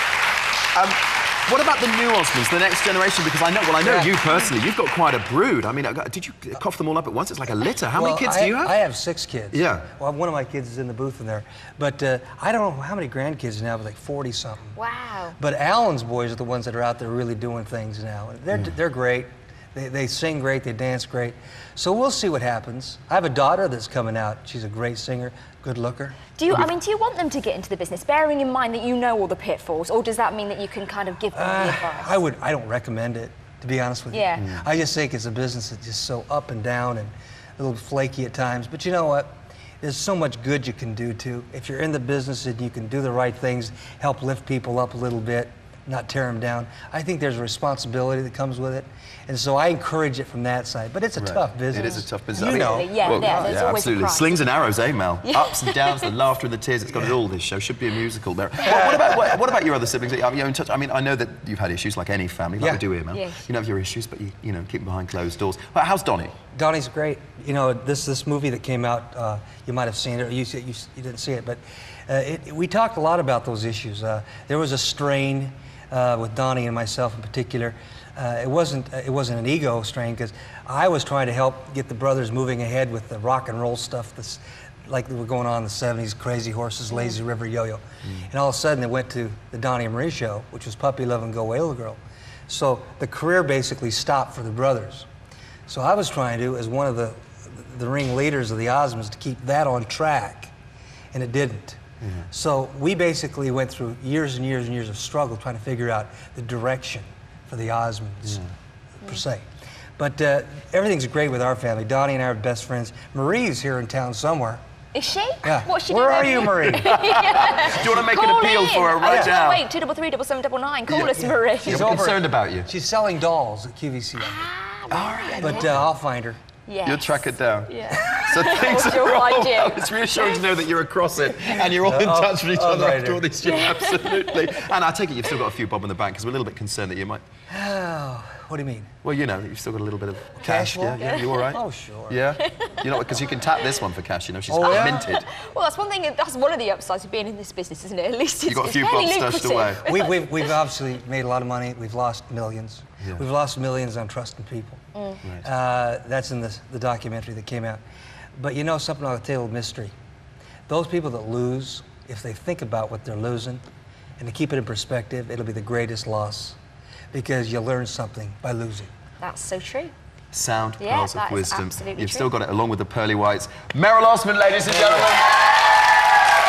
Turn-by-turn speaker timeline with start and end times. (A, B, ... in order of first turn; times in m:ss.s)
0:00.8-0:08.8 A
0:03.8-0:04.2 B
0:07.9-0:14.8 B
0:09.5-0:09.9 A
0:15.4-0:26.7 B
0:26.4-0:32.0 C
0:31.3-0:53.7 B
0:34.4-0:34.6 A
0:51.2-1:06.3 A
0:52.9-0:54.3 C
0:56.9-0:57.2 B
0:58.6-0:59.4 B
1:06.5-1:35.1 B
1:35.7-1:40.5 B
1:41.1-1:48.4 B
1:42.0-1:42.3 A
1:49.0-1:49.4 B
1:50.0-1:54.6 B
1:55.3-1:57.7 C
1:55.4-1:57.0 B
1:56.6-1:59.6 A
1:58.2-2:01.6 C
1:59.0-1:59.4 B
2:00.9-2:04.4 B
2:01.6-2:02.7 A
2:04.9-2:05.9 A
2:05.2-2:05.5 C
2:05.4-2:06.4 B
2:06.8-2:17.2 A
2:08.6-2:09.7 C
2:11.8-2:13.3 B
2:17.5-2:18.9 B
2:19.0-2:25.3 A
2:20.4-2:22.2 B
2:24.5-2:25.1 B
2:25.5-2:28.9 C
2:28.5-2:29.8 A
2:29.5-2:29.8 C
2:29.8-2:34.8 B
2:35.2-2:35.5 A
2:35.4-2:37.8 B
2:38.4-2:39.9 B
2:40.7-2:43.6 B
2:44.2-2:46.6 B
2:47.1-2:48.9 B
2:49.2-2:49.9 C
2:50.3-2:55.4 A
2:51.0-2:52.2 C
2:54.6-2:55.1 B